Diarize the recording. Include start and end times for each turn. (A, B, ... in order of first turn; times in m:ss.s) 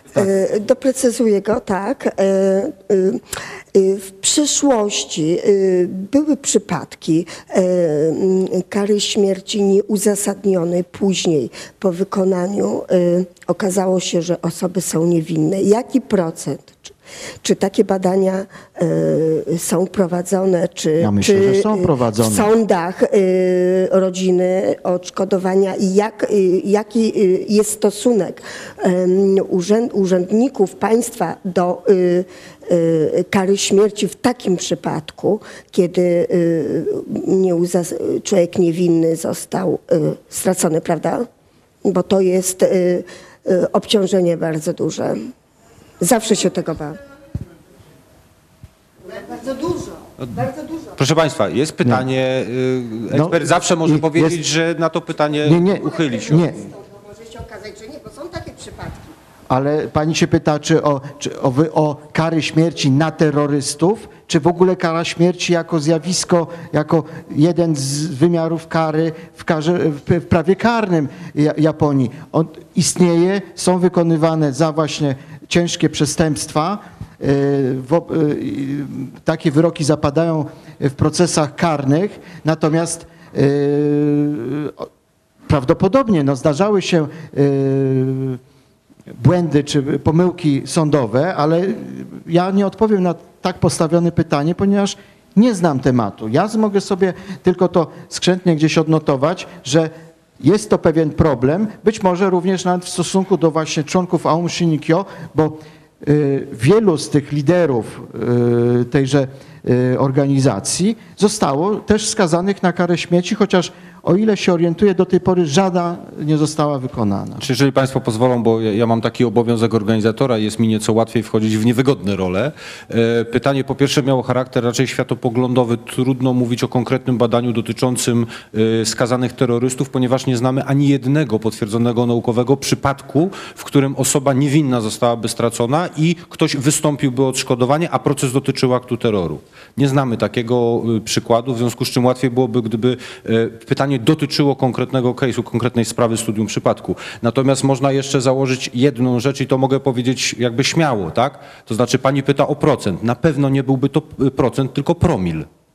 0:00.1-0:41.3 A
0:21.0-0:22.5 B
0:41.8-0:45.3 A
0:46.0-0:47.0 A
0:49.1-0:50.6 A
0:50.2-0:56.5 C
0:53.1-0:54.4 B
0:55.4-0:56.7 B
0:56.7-0:59.1 A
0:59.5-1:24.9 B
1:25.5-1:28.4 B
1:29.2-1:57.4 B
1:57.4-2:35.5 C